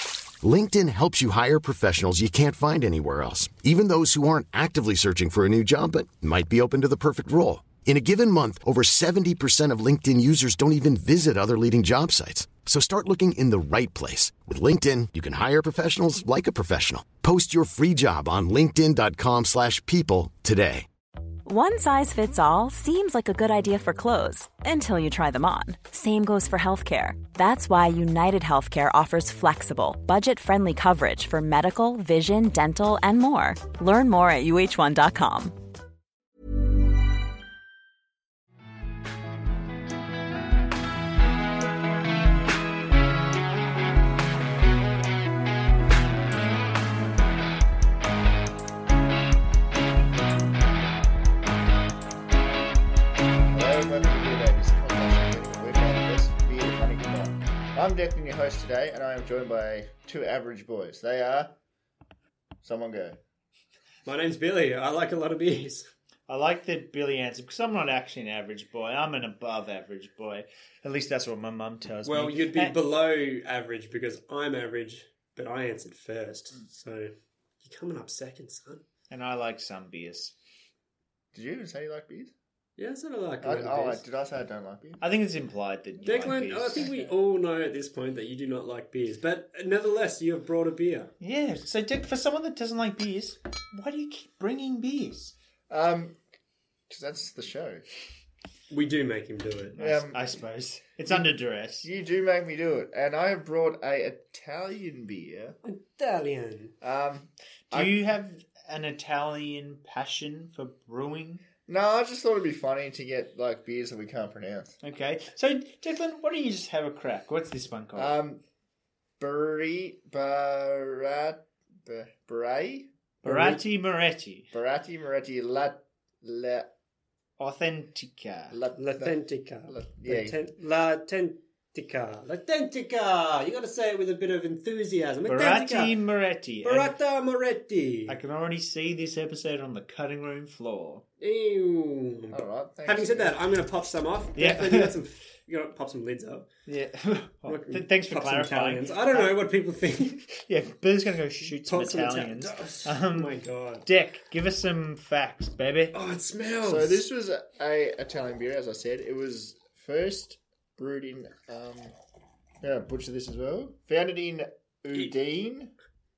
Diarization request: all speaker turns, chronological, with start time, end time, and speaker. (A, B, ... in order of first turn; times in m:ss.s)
0:00.4-0:20.9 A
0:21.4-0:35.6 B
0:53.5-1:01.5 C
1:02.6-1:03.2 C
1:04.0-1:05.9 D
1:06.3-1:12.8 E
1:12.0-1:18.8 D
1:19.1-1:20.4 E
1:21.3-1:22.3 C
1:22.8-1:24.0 D
1:23.4-1:25.0 C
1:25.0-1:26.9 E
1:26.0-1:31.1 D
1:26.1-1:26.8 C
1:31.2-1:35.3 E
1:35.7-1:36.2 C
1:36.9-1:37.8 C
1:38.7-1:39.8 D
1:39.8-1:40.2 C
1:39.8-1:41.9 E
1:41.8-1:45.6 C
1:45.6-1:46.7 D
1:46.8-1:48.0 C
1:47.7-1:51.4 E
1:51.7-1:54.8 C
1:54.8-1:58.1 E
1:58.0-1:58.4 C
1:59.2-2:02.9 C
2:03.2-2:04.5 E
2:03.2-2:03.6 D
2:04.5-2:06.7 C
2:07.4-2:08.6 E
2:08.5-2:10.4 C
2:08.8-2:16.1 D
2:15.2-2:17.0 E
2:16.6-2:18.2 D
2:18.1-2:21.0 E
2:21.2-2:26.5 D
2:22.3-2:23.4 C
2:24.4-2:25.0 E
2:26.7-2:29.4 E
2:27.5-2:30.2 D
2:30.3-2:33.3 E
2:31.4-2:33.9 D
2:33.8-2:36.0 E
2:35.9-2:37.0 D
2:36.6-2:42.0 C
2:42.6-2:45.7 C